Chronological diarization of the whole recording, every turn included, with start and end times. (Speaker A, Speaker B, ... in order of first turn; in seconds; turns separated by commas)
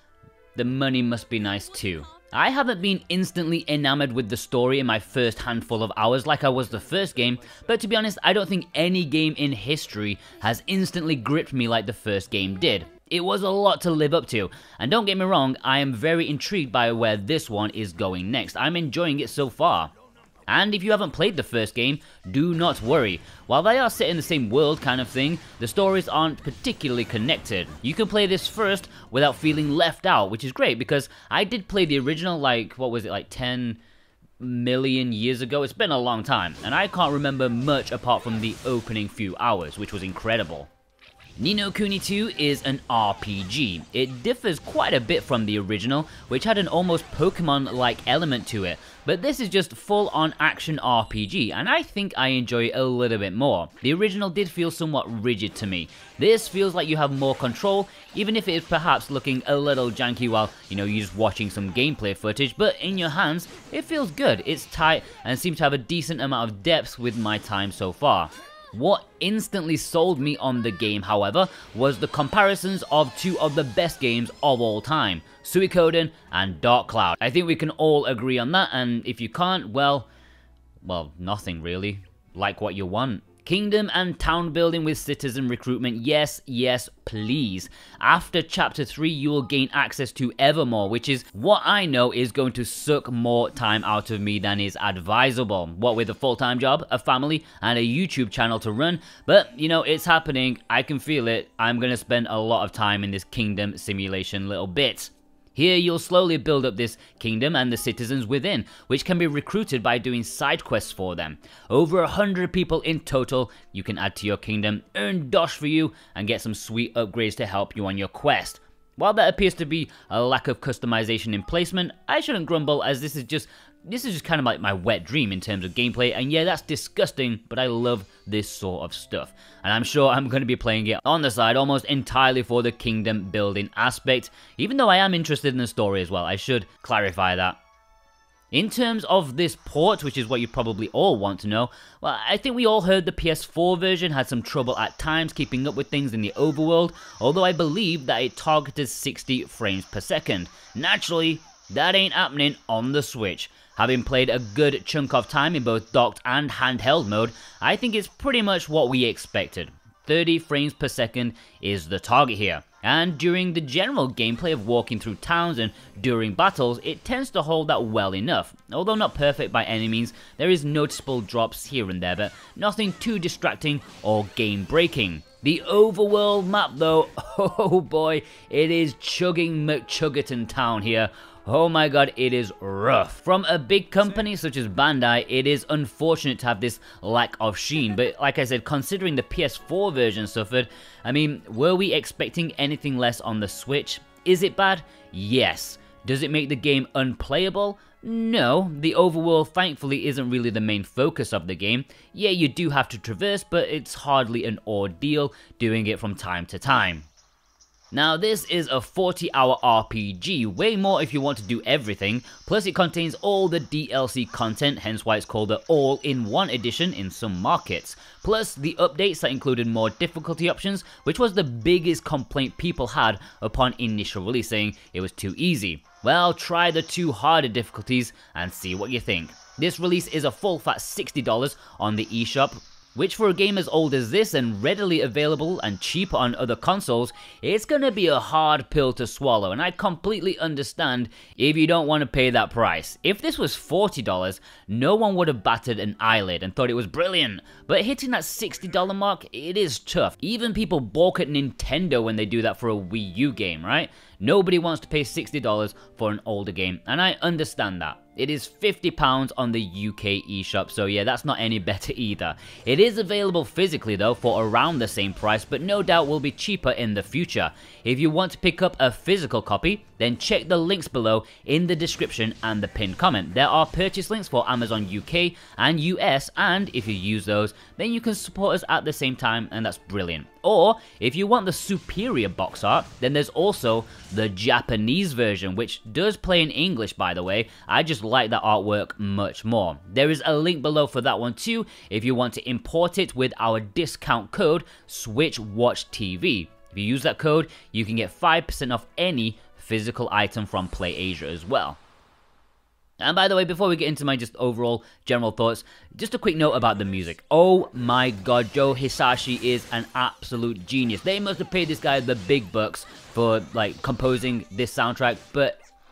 Speaker A: 0.6-19.9, Speaker A: 20.5-33.8, Speaker A: 34.4-40.7, Speaker A: 41.4-80.1, Speaker A: 80.8-137.6, Speaker A: 138.5-207.1, Speaker A: 207.9-301.8, Speaker A: 303.0-315.6